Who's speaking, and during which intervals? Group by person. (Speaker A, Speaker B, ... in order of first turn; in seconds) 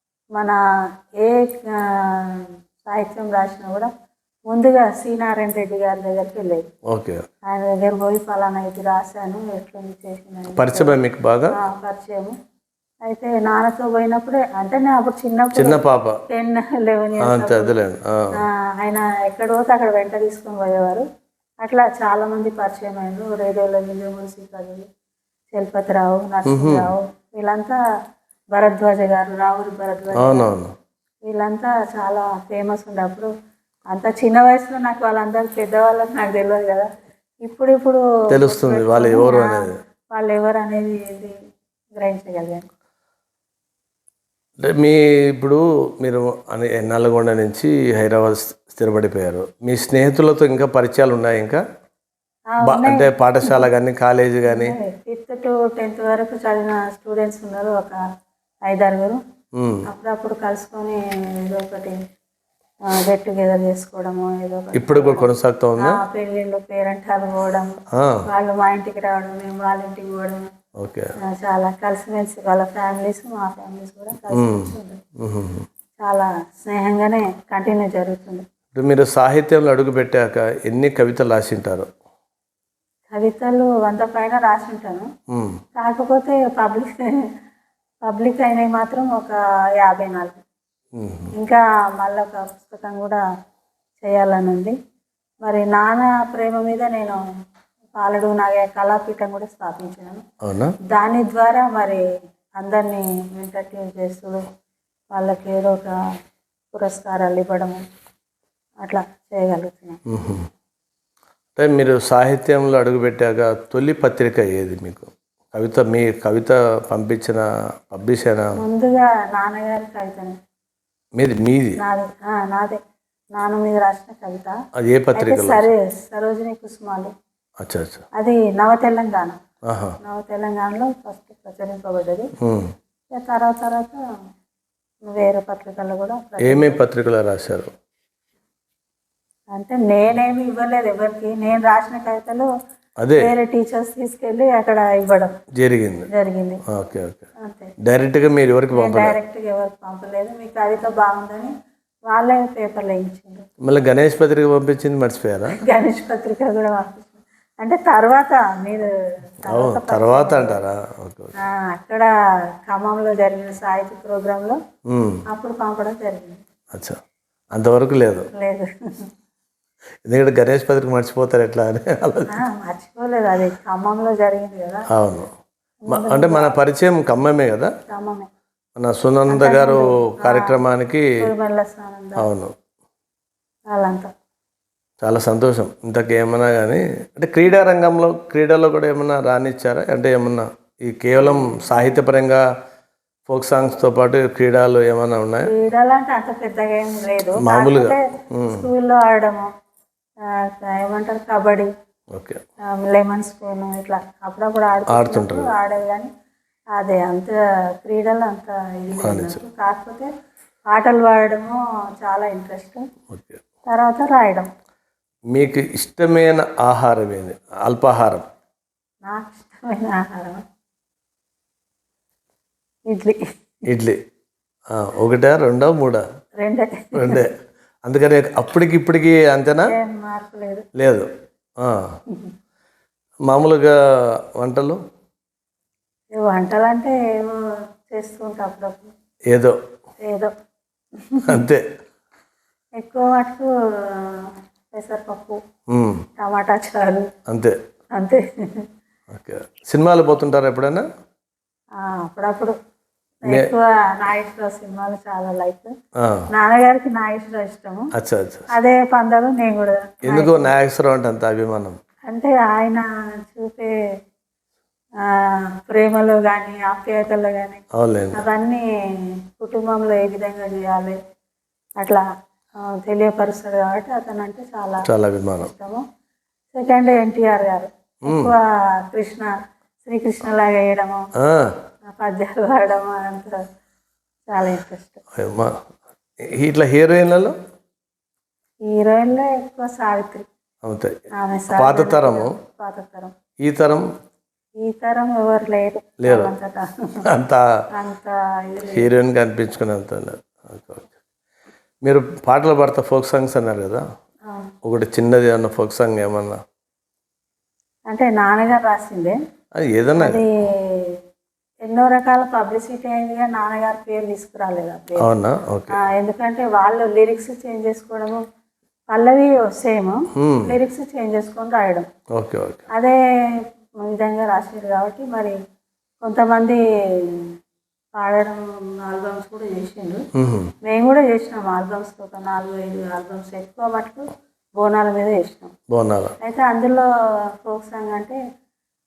Speaker A: 1.2-3.9, 4.5-6.7, 7.5-10.9, 11.5-12.4, 13.1-17.7, 18.4-21.1, 21.6-24.8, 25.5-27.8, 28.5-30.5, 31.2-33.3, 33.9-36.9, 37.4-41.3, 42.0-42.6, 52.5-53.7, 54.5-58.0, 58.7-59.2, 59.9-62.0, 62.9-65.3, 65.8-67.7, 68.2-70.5, 71.2-75.0, 76.0-78.5, 83.1-85.1, 85.8-87.2, 88.0-90.4, 91.4-93.2, 94.0-94.8, 95.4-97.2, 98.0-100.2, 100.9-102.0, 102.6-104.4, 105.1-105.9, 106.7-107.8, 108.8-110.0, 118.5-120.4, 121.8-122.8, 123.3-124.6, 125.1-127.1, 128.2-129.4, 130.0-132.3, 133.1-134.0, 135.0-136.8, 139.5-142.5, 143.2-145.4, 146.1-146.6, 147.4-147.7, 148.7-151.5, 152.1-153.5, 155.5-158.9, 159.4-160.6, 161.4-162.1, 162.7-164.6, 165.3-166.4, 168.3-169.1, 172.3-174.8, 175.9-176.6, 177.9-178.3, 179.3-180.6, 181.2-182.3, 183.7-184.1, 191.2-191.6, 195.4-199.5, 200.3-201.7, 202.7-206.1, 206.7-210.1, 210.7-212.8, 213.7-214.5, 219.0-220.4, 222.9-223.2, 226.4-227.2, 229.6-230.7, 232.1-232.3, 236.2-238.9, 240.0-240.3, 240.9-241.4, 242.8-245.4, 246.2-247.1, 247.9-248.7, 251.8-252.6, 253.2-255.7, 256.3-257.9, 258.5-260.5, 262.1-263.8, 265.0-268.6, 269.3-271.0, 271.8-272.0, 272.6-274.9, 275.4-275.8, 276.5-281.1, 281.9-283.4, 284.3-285.0, 288.6-290.3, 291.2-293.1, 294.6-297.1, 297.8-299.0, 304.2-304.5, 307.9-309.2, 310.0-310.9, 311.6-315.1, 315.7-318.2, 318.9-321.9, 322.7-325.4, 326.0-327.3, 328.0-330.0, 330.6-335.5, 336.2-338.2
Speaker B: 6.9-7.2, 10.5-11.6, 15.5-16.2, 17.2-18.4, 26.5-26.9, 30.1-30.7, 38.3-39.8, 44.6-51.6, 52.6-54.8, 59.6-59.9, 64.7-66.0, 67.9-68.2, 70.8-71.1, 74.2-75.7, 78.7-81.9, 85.3-85.6, 91.0-91.3, 100.4-100.7, 110.1-110.5, 111.5-118.6, 121.2-121.8, 124.8-125.7, 127.6-128.1, 129.7-130.0, 132.4-132.7, 136.4-137.7, 143.0-143.3, 145.5-146.1, 146.6-147.3, 147.8-149.2, 153.6-155.6, 159.5-161.3, 164.9-165.2, 166.7-167.0, 167.5-168.3, 170.1-172.4, 174.9-175.3, 175.9-177.7, 178.8-181.1, 182.2-182.5, 185.0-192.4, 193.3-195.5, 197.4-198.7, 202.1-202.4, 204.9-205.5, 209.0-209.4, 213.1-213.4, 215.3-218.3, 223.7-224.0, 224.7-226.0, 226.9-227.3, 227.9-229.7, 230.8-232.0, 233.3-234.8, 239.3-239.6, 241.3-241.6, 245.7-246.1, 247.3-247.6, 249.1-250.8, 256.0-256.2, 257.9-258.5, 260.1-261.8, 267.8-268.2, 274.8-275.5, 278.1-278.3, 281.2-281.5, 285.1-285.6, 286.2-287.4, 290.6-291.0, 291.5-292.4, 293.4-293.9, 296.0-296.3, 297.1-297.4, 298.6-300.9, 301.8-303.8, 304.6-306.4, 309.6-310.2, 315.0-315.8, 320.1-320.6, 322.1-322.6, 330.1-330.5, 335.7-336.1